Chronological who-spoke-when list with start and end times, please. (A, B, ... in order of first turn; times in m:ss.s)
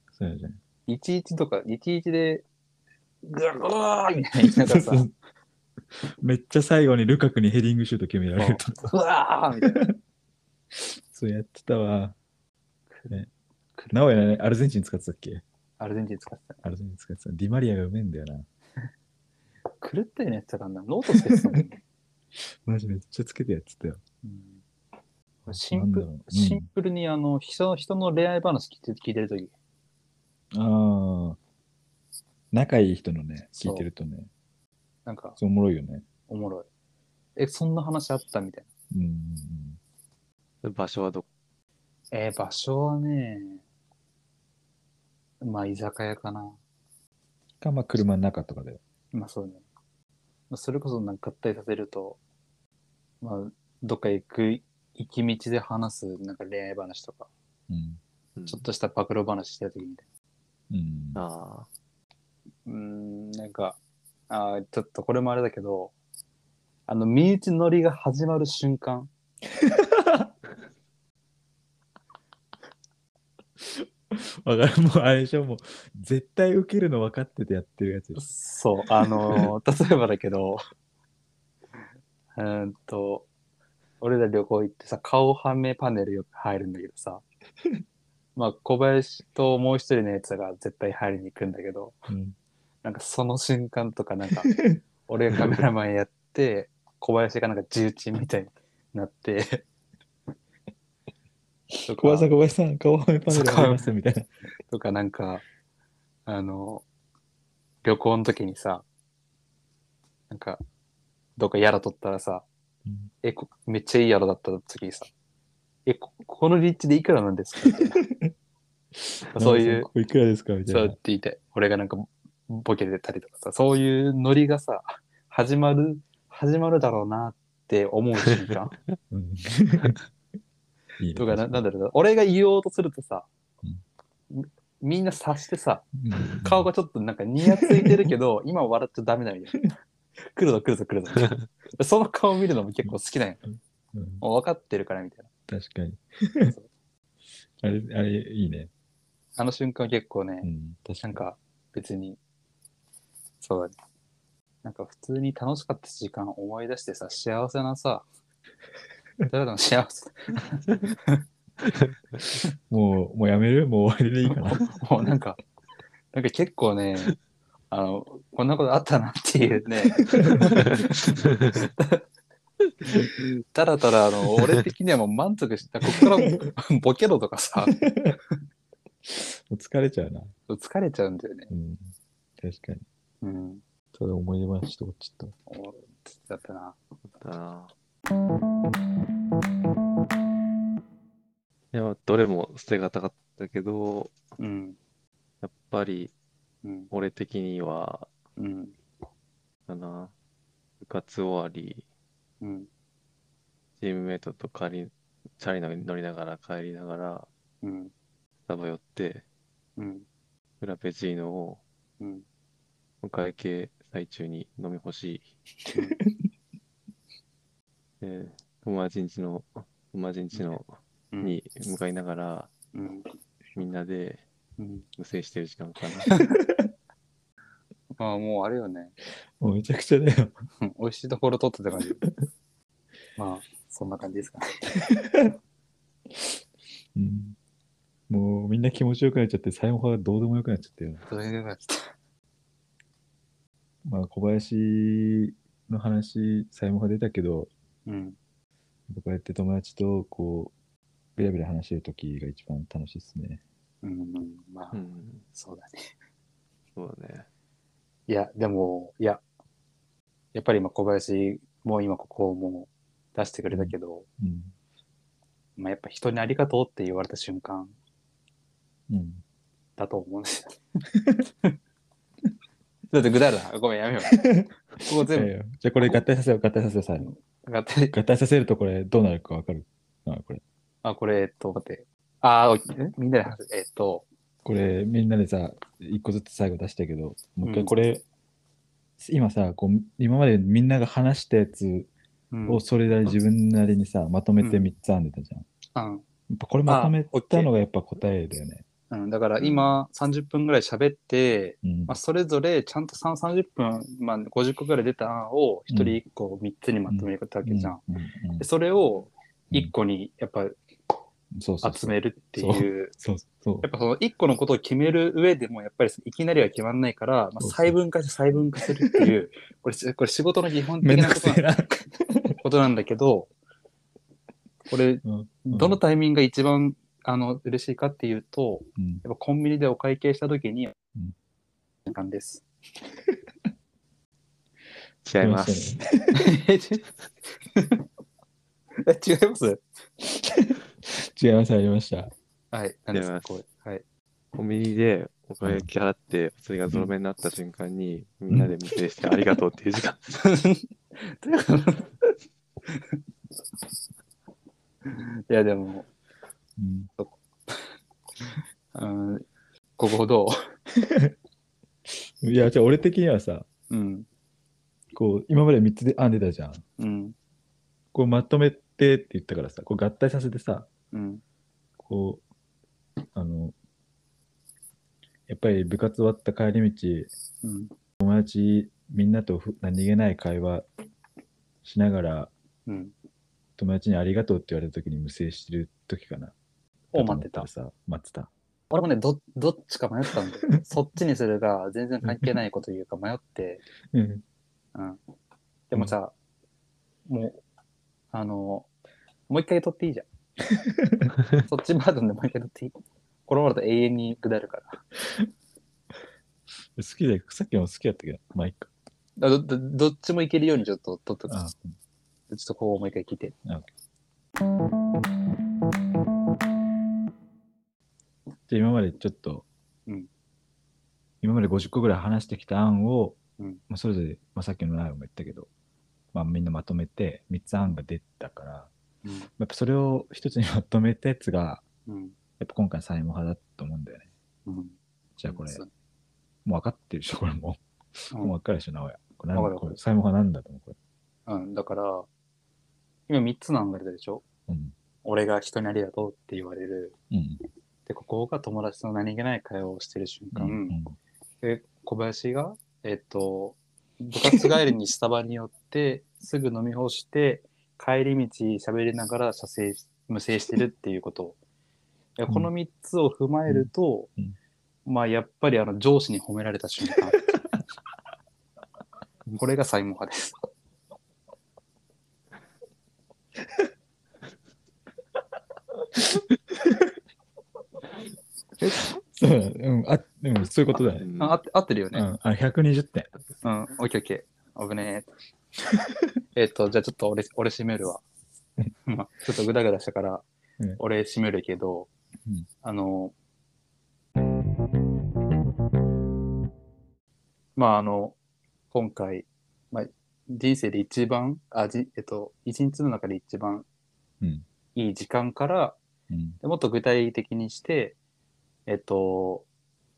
0:00.1-0:00.6 A
0:00.9-0:02.4 B
0:03.2-0:05.0 B
0:04.5-0:05.1 A
0:06.0-0:08.9 A
0:08.4-0:09.9 B
0:09.6-0:09.9 A
0:10.7-0:12.2 A
0:12.9-0:13.2 B
0:13.8-0:14.3 B
0:13.9-0:15.4 A
0:15.8-0:16.6 B
0:16.6-0:18.4 A
0:19.8-0:21.8 B
0:21.3-0:21.6 A
0:22.6-0:24.0 A
0:24.2-0:24.6 B
0:25.4-0:26.7 A
0:25.5-0:29.5 B
0:30.5-0:31.4 A
0:32.5-0:34.3 A
0:33.6-0:33.9 B
0:35.0-0:35.4 B
0:35.4-0:36.0 A
0:36.3-0:36.6 B
0:37.4-0:38.7 B
0:38.9-0:39.8 A
0:40.6-0:41.3 C
0:42.1-0:43.6 B
0:45.4-0:46.6 B
0:47.6-0:48.8 A
0:49.1-0:49.6 B
0:50.5-0:52.2 B
0:53.2-0:57.3 B
0:57.7-0:58.0 A
0:58.3-0:58.6 C
0:58.5-1:00.0 B
1:00.7-1:01.2 A
1:01.1-1:01.7 C
1:02.6-1:03.8 B
1:04.3-1:05.9 B
1:06.9-1:09.1 B
1:09.6-1:10.3 A
1:13.6-1:18.2 A
1:18.2-1:20.6 B
1:18.9-1:19.5 A
1:22.3-1:23.3 B
1:24.0-1:27.2 B
1:28.4-1:32.1 B
1:32.1-1:32.4 A
1:32.8-1:34.5 B
1:34.5-1:34.8 A
1:35.0-1:39.6 B
1:35.4-1:35.6 A
1:41.8-1:42.3 B
1:41.9-1:44.3 A
1:43.3-1:43.9 B
1:44.7-1:45.4 B
1:46.2-1:46.8 B
1:47.8-1:48.8 B
1:50.3-1:50.6 B
1:51.4-1:52.4 B
1:53.2-1:55.1 B
1:55.8-1:58.0 B
1:59.0-2:01.0 A
1:59.3-1:59.9 B
2:00.7-2:08.7 B
2:09.1-2:10.0 A
2:11.0-2:11.6 A
2:11.2-2:13.3 B
2:14.3-2:19.7 B
2:16.0-2:16.7 A
2:20.2-2:23.4 B
2:23.9-2:24.2 A
2:24.2-2:25.3 B
2:25.5-2:26.5 A
2:26.4-2:26.7 B
2:27.6-2:28.7 A
2:29.4-2:30.5 B
2:30.4-2:31.2 A
2:31.0-2:32.2 B
2:33.4-2:33.7 B
2:34.6-2:38.0 B
2:39.3-2:41.2 B
2:42.7-2:44.7 A
2:44.3-2:45.4 B
2:46.1-2:47.1 B
2:47.7-2:52.0 B
2:50.1-2:50.8 A
2:52.9-2:57.8 B
2:57.7-2:58.2 A
2:59.0-3:00.3 A
3:00.5-3:01.5 B
3:01.5-3:02.8 A
3:03.2-3:03.6 B
3:03.9-3:05.3 A
3:05.5-3:06.8 B
3:07.2-3:07.7 C
3:11.7-3:14.2 C
3:14.4-3:14.8 B
3:15.4-3:16.1 C
3:16.6-3:16.9 B
3:16.9-3:18.1 C
3:18.4-3:18.8 B
3:19.7-3:20.1 C
3:20.8-3:21.8 C
3:22.4-3:22.7 B
3:23.8-3:27.3 C
3:27.6-3:27.9 B
3:28.5-3:29.2 C
3:29.8-3:30.0 B
3:30.6-3:31.6 C
3:32.0-3:32.2 B
3:33.0-3:35.3 C
3:38.0-3:42.5 C
3:41.1-3:41.4 B
3:42.7-3:43.1 B
3:43.5-3:44.2 C
3:44.6-3:44.8 B
3:45.0-3:46.2 C
3:48.0-3:48.9 B
3:49.4-3:50.4 A
3:50.6-3:52.0 B
3:53.2-3:54.7 B
3:54.8-3:55.3 A
3:56.1-3:56.4 A
3:56.9-3:57.4 A
3:58.1-4:01.0 A
4:01.1-4:01.9 B
4:03.8-4:07.5 A
4:07.8-4:08.2 B
4:08.9-4:10.5 A
4:11.2-4:13.4 A
4:13.8-4:15.8 B
4:14.7-4:15.2 C
4:16.7-4:17.3 C
4:18.1-4:19.2 B
4:20.3-4:24.0 B
4:23.5-4:24.5 A
4:25.6-4:27.7 B
4:28.9-4:29.2 A
4:29.8-4:30.6 B
4:32.9-4:34.3 B
4:34.1-4:37.1 A
4:34.8-4:35.3 B
4:37.0-4:37.9 B
4:37.9-4:40.4 A
4:40.8-4:44.1 B
4:44.4-4:48.0 A
4:47.4-4:47.7 B
4:49.0-4:51.9 A
4:52.3-4:52.6 B
4:52.5-4:55.5 A
4:54.4-4:54.7 B
4:55.7-4:56.0 B
4:56.3-4:58.6 A
4:56.6-4:57.5 B
4:58.9-5:07.8 B
4:59.4-4:59.7 C
5:01.6-5:01.9 A
5:05.7-5:06.0 A
5:06.9-5:08.4 A
5:08.4-5:10.6 B
5:11.3-5:13.7 A
5:11.6-5:12.9 B
5:13.6-5:21.5 B
5:17.4-5:17.7 A
5:18.8-5:19.1 A
5:20.8-5:22.4 A
5:22.4-5:23.3 B
5:24.7-5:30.7 B
5:25.0-5:25.8 A
5:28.8-5:29.0 A
5:31.8-5:32.4 B
5:35.0-5:35.8 C
5:35.2-5:36.3 A
5:36.1-5:36.8 B
5:37.5-5:37.8 B
5:38.8-5:39.6 B
5:40.0-5:42.1 A
5:42.5-5:43.8 B
5:42.9-5:43.4 C
5:44.3-5:50.2 C
5:50.2-5:52.1 B
5:52.7-5:53.0 B
5:54.8-5:55.9 B
5:56.6-5:56.9 A
5:57.0-5:59.2 B
5:59.8-6:00.5 B
6:00.7-6:01.1 A
6:01.9-6:03.4 A
6:03.7-6:04.0 B
6:04.9-6:06.6 A
6:06.8-6:07.1 B
6:07.9-6:10.7 A
6:10.9-6:11.2 B
6:11.8-6:12.2 A
6:13.1-6:13.5 A
6:15.3-6:17.1 A
6:17.4-6:17.7 B
6:18.0-6:20.6 A
6:21.6-6:22.3 A
6:22.7-6:22.9 B
6:23.6-6:26.3 A
6:26.9-6:27.5 B
6:26.9-6:28.3 A
6:28.7-6:33.6 B
6:33.9-6:34.2 A
6:34.7-6:35.0 B
6:35.7-6:36.1 B
6:37.0-6:37.4 B
6:38.1-6:38.7 B
6:39.3-6:40.0 B
6:40.5-6:41.1 A
6:41.4-6:42.7 B
6:43.3-6:44.8 B
6:46.8-6:48.7 A
6:49.2-6:51.4 B
6:51.3-6:51.7 A
6:52.3-6:53.3 B
6:53.4-6:53.7 A
6:58.5-6:59.4 A
7:01.2-7:05.5 A
7:06.1-7:08.7 A
7:09.0-7:09.3 B
7:09.4-7:11.6 A
7:11.9-7:12.2 B
7:12.4-7:14.1 A
7:14.4-7:14.8 B
7:15.2-7:15.6 A
7:16.4-7:20.8 A
7:19.3-7:19.8 B
7:21.3-7:22.1 B
7:23.1-7:24.2 B
7:24.5-7:24.7 A
7:25.0-7:27.0 B
7:27.1-7:27.4 A
7:27.8-7:30.8 B
7:30.3-7:31.0 A
7:31.4-7:41.4 B
7:34.2-7:34.5 A
7:42.2-7:44.1 B
7:43.5-7:44.3 A
7:44.8-7:47.2 B
7:49.3-7:50.4 B
7:56.0-7:56.9 A
7:58.6-8:01.1 A
8:01.0-8:01.4 C
8:01.2-8:02.0 B
8:01.9-8:03.1 A
8:03.4-8:05.1 B
8:06.4-8:08.0 B
8:08.8-8:10.2 B
8:10.8-8:11.9 B
8:12.6-8:13.1 B
8:17.6-8:18.2 B
8:18.7-8:23.6 B
8:24.7-8:25.8 B
8:26.1-8:26.4 A
8:26.4-8:28.0 B
8:28.7-8:29.4 B